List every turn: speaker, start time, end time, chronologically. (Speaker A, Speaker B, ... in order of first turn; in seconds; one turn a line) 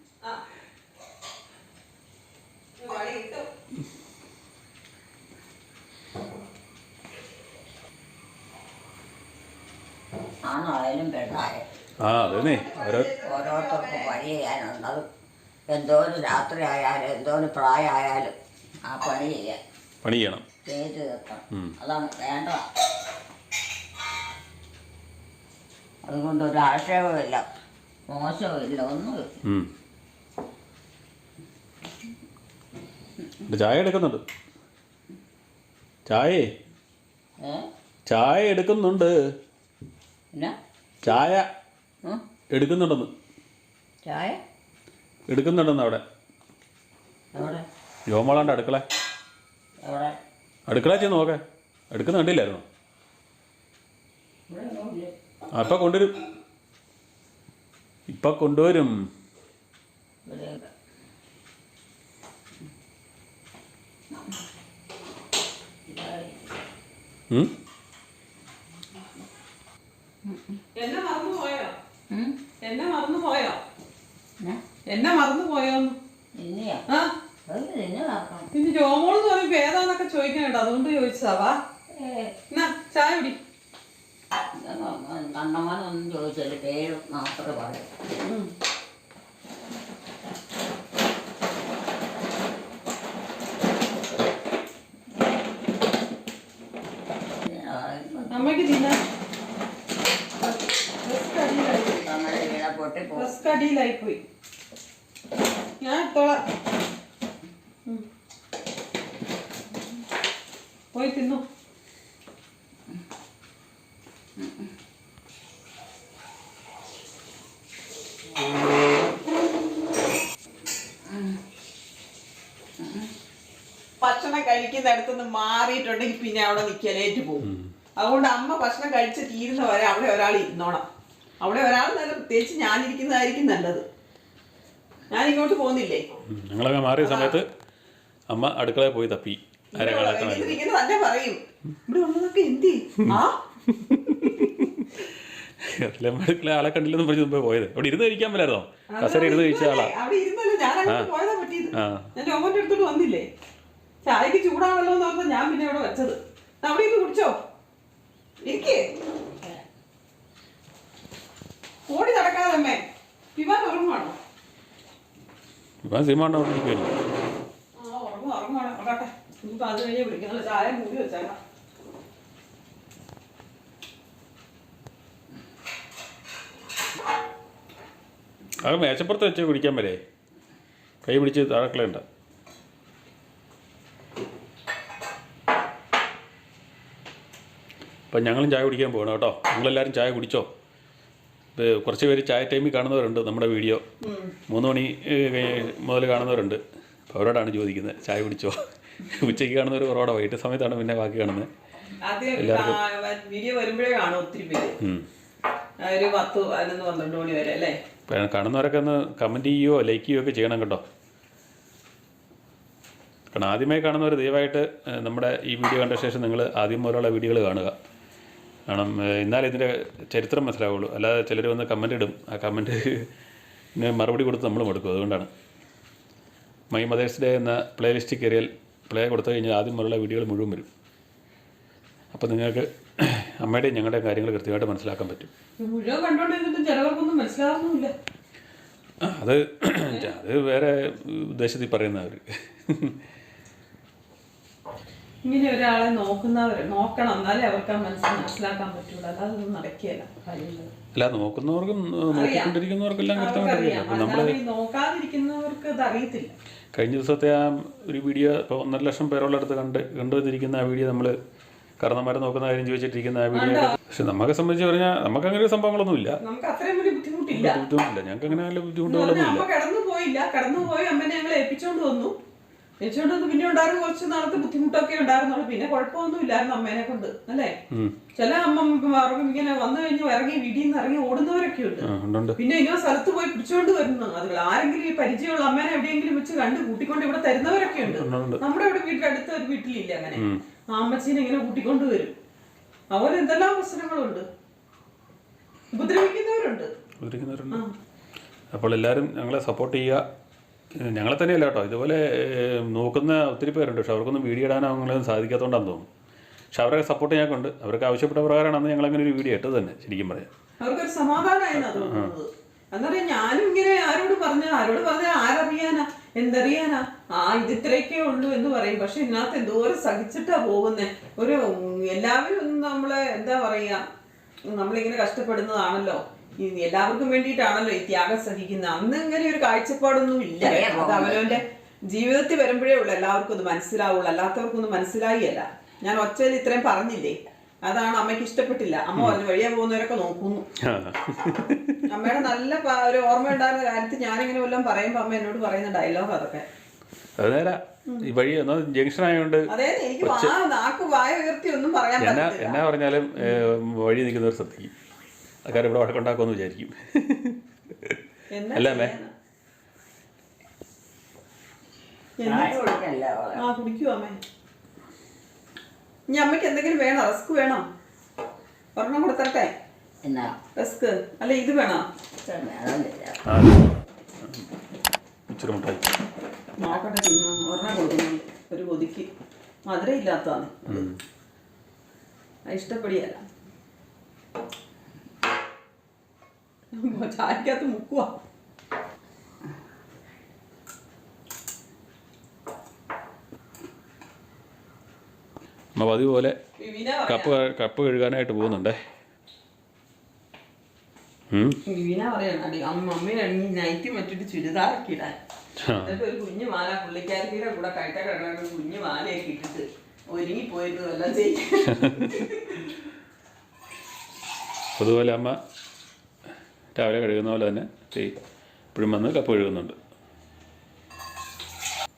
Speaker A: 2.8-3.5
Speaker B: 10.4-11.7
Speaker C: 12.0-13.1
Speaker A: 12.1-14.1
Speaker B: 13.2-15.0
Speaker B: 15.7-18.3
Speaker B: 18.9-19.6
Speaker C: 20.0-20.4
Speaker B: 20.6-22.7
Speaker B: 26.0-27.5
Speaker B: 28.1-29.3
Speaker C: 33.5-34.2
Speaker C: 36.0-36.4
Speaker B: 37.4-37.7
Speaker C: 38.0-39.1
Speaker C: 41.0-41.4
Speaker C: 42.5-43.1
Speaker B: 44.0-44.4
Speaker C: 45.3-46.0
Speaker B: 47.3-47.6
Speaker C: 48.1-48.8
Speaker B: 49.8-50.2
Speaker C: 50.7-52.6
Speaker B: 54.5-55.1
Speaker C: 55.5-56.1
Speaker C: 58.1-58.9
Speaker B: 60.2-60.7
Speaker B: 65.9-66.3
Speaker B: 70.2-70.6
Speaker A: 70.8-71.7
Speaker A: 72.6-73.6
Speaker A: 74.9-76.0
Speaker B: 76.4-76.8
Speaker B: 77.5-78.5
Speaker A: 78.5-81.6
Speaker B: 82.0-82.3
Speaker A: 82.5-83.4
Speaker B: 84.6-87.9
Speaker A: 88.2-88.5
Speaker B: 97.4-98.5
Speaker A: 98.3-99.0
Speaker A: 100.4-102.1
Speaker B: 101.9-103.4
Speaker A: 103.1-104.2
Speaker A: 105.8-106.4
Speaker A: 110.9-111.4
Speaker B: 114.4-114.7
Speaker B: 121.1-121.4
Speaker B: 122.8-123.1
Speaker A: 124.0-130.8
Speaker C: 127.4-127.7
Speaker A: 131.4-133.8
Speaker A: 135.1-136.0
Speaker C: 136.3-137.4
Speaker A: 137.0-137.4
Speaker C: 138.3-140.6
Speaker A: 139.7-143.3
Speaker C: 143.7-149.9
Speaker A: 148.9-153.3
Speaker C: 151.8-152.1
Speaker A: 154.0-157.3
Speaker A: 158.4-158.8
Speaker A: 161.9-162.8
Speaker A: 163.3-164.2
Speaker C: 165.8-166.9
Speaker A: 167.8-171.4
Speaker C: 178.6-180.0
Speaker C: 181.0-182.0
Speaker C: 188.1-190.5
Speaker C: 191.6-193.8
Speaker A: 194.0-194.3
Speaker C: 194.5-201.5
Speaker A: 202.0-204.8
Speaker C: 202.4-202.8
Speaker A: 205.8-207.8
Speaker C: 208.1-210.8
Speaker C: 213.3-217.7
Speaker C: 218.7-223.1
Speaker C: 223.8-225.3
Speaker C: 226.7-230.7
Speaker C: 232.1-235.3
Speaker A: 235.6-237.9
Speaker C: 239.0-242.9
Speaker A: 245.2-250.7
Speaker C: 250.9-254.3
Speaker A: 252.1-252.6
Speaker A: 253.1-256.3
Speaker C: 256.7-261.1
Speaker C: 261.8-266.2
Speaker A: 263.3-263.7
Speaker A: 266.2-267.6
Speaker C: 267.3-269.4
Speaker A: 268.9-272.1
Speaker A: 272.8-277.5
Speaker A: 278.1-292.1
Speaker C: 281.8-282.4
Speaker C: 287.8-288.4
Speaker A: 292.9-294.2
Speaker A: 295.7-296.7
Speaker C: 297.0-297.6
Speaker C: 298.5-300.0
Speaker C: 300.8-305.9
Speaker C: 306.5-310.3
Speaker A: 310.6-323.8
Speaker C: 311.5-312.1
Speaker A: 324.5-340.4
Speaker B: 330.4-331.4
Speaker C: 340.6-342.2
Speaker A: 341.9-346.4
Speaker C: 347.2-349.5
Speaker A: 349.5-352.6
Speaker C: 350.0-350.3
Speaker C: 352.0-354.7
Speaker C: 355.4-358.0
Speaker A: 358.3-359.1
Speaker C: 358.5-358.9
Speaker A: 362.2-362.6
Speaker B: 362.2-363.5
Speaker A: 363.4-364.2
Speaker A: 366.1-367.6
Speaker A: 368.8-369.5
Speaker B: 370.0-370.4
Speaker A: 370.6-371.8
Speaker B: 372.2-373.2
Speaker C: 373.3-373.7
Speaker C: 374.2-374.5
Speaker C: 375.3-375.9
Speaker A: 376.6-379.1
Speaker A: 379.7-380.9
Speaker C: 380.7-381.0
Speaker A: 382.4-383.2
Speaker A: 386.7-388.1
Speaker C: 395.8-396.3
Speaker A: 396.6-397.3
Speaker C: 397.1-398.8
Speaker A: 401.6-405.1
Speaker C: 405.6-406.0
Speaker A: 405.8-412.6
Speaker C: 411.7-412.1
Speaker C: 414.8-415.4
Speaker C: 416.7-418.2
Speaker C: 418.7-419.8